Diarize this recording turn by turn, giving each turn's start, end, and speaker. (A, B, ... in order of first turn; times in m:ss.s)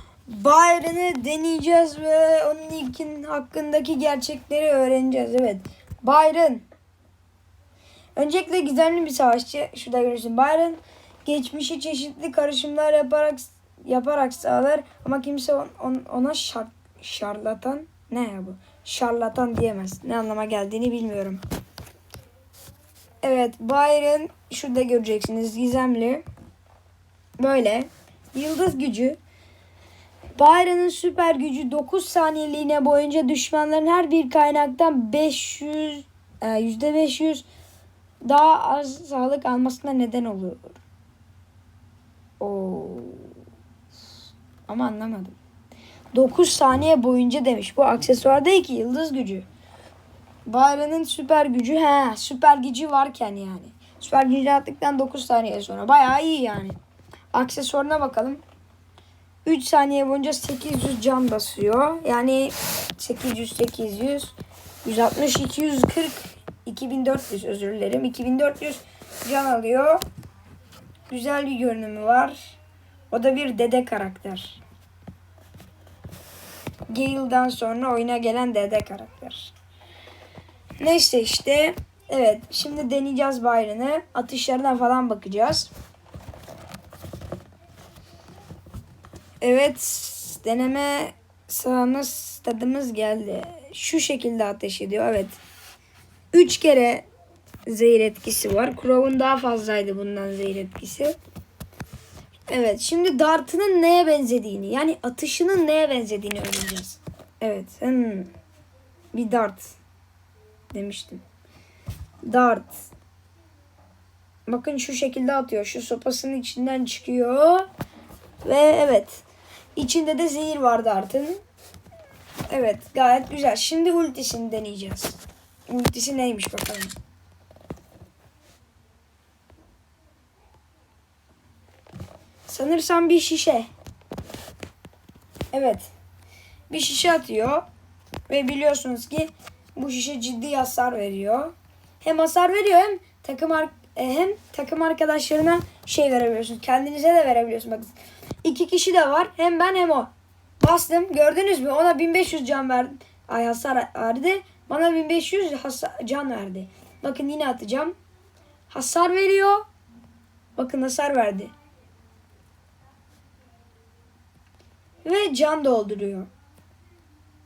0:00.3-0:06.6 A
0:08.2-0:21.4 A
0:23.2-0:26.2 A
0:27.4-0:29.2 A
0:30.4-0:37.4 A
0:38.2-0:40.8 A
0:42.4-0:43.3 A
0:44.7-0:45.4 A
0:46.1-0:49.4 A
0:50.5-0:56.8 A
0:57.3-0:58.4 A
0:59.4-1:10.0 A
1:11.1-1:12.6 A
1:13.1-1:14.6 A
1:16.9-1:19.5 A
1:20.8-1:25.7 A
1:29.4-1:35.4 A
1:36.3-1:37.0 A
1:37.7-1:41.2 A
1:42.5-1:48.3 A
1:49.1-1:49.7 A
1:50.7-1:51.2 A
1:52.2-1:52.7 A
1:54.5-1:57.7 A
1:58.4-1:59.2 A
1:59.8-2:01.4 A
2:02.5-2:06.9 A
2:12.5-2:13.7 A
2:15.5-2:15.9 A
2:16.7-2:17.6 A
2:18.3-2:30.1 A
2:30.6-2:37.9 A
2:38.7-2:39.6 A
2:40.6-2:41.5 A
2:45.0-2:46.3 A